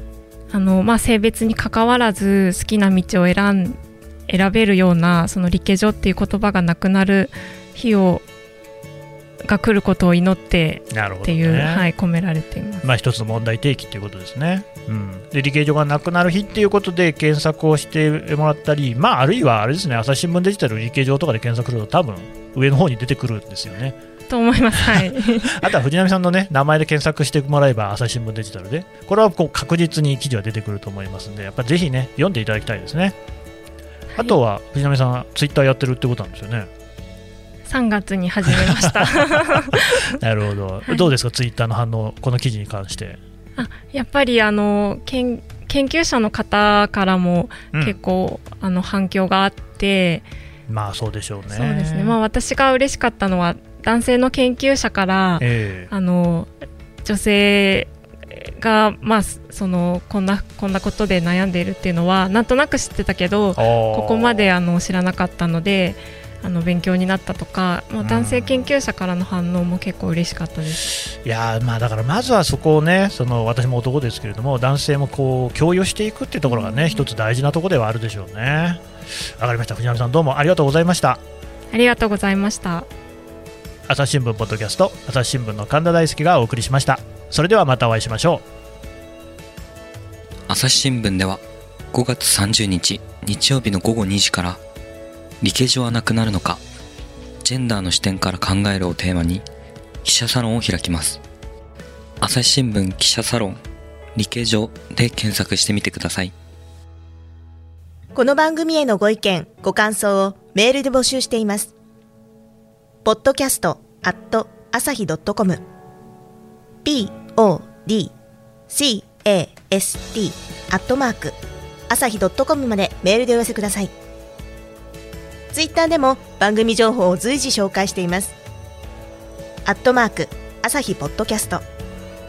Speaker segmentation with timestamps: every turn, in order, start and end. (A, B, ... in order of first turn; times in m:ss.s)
0:00.5-0:08.2 A
0:09.4-0:12.8 A
0:10.9-0:11.9 B
0:12.8-0:24.0 B
0:24.3-0:25.6 A
0:24.7-0:33.2 B
0:34.2-0:36.7 B
0:37.7-0:40.0 A
0:38.4-0:43.2 B
0:43.6-0:50.2 A
0:50.7-0:52.2 B
0:51.5-0:56.5 A
0:55.4-0:55.9 B
0:57.0-1:10.9 A
1:03.6-1:04.5 B
1:08.0-1:08.7 B
1:11.0-1:21.2 B
1:16.4-1:17.0 A
1:21.7-1:22.9 A
1:23.9-1:28.4 B
1:30.5-1:31.4 C
1:31.9-1:34.6 C
1:35.4-1:36.6 C
1:37.4-1:39.4 C
1:40.0-1:41.2 C
1:42.2-1:43.6 C
1:44.2-1:46.3 C
1:48.1-1:51.7 D
1:53.0-1:55.6 D
1:56.8-1:58.1 D
1:58.7-2:01.4 D
2:01.9-2:03.9 D
2:05.5-2:08.3 D
2:09.6-2:11.6 D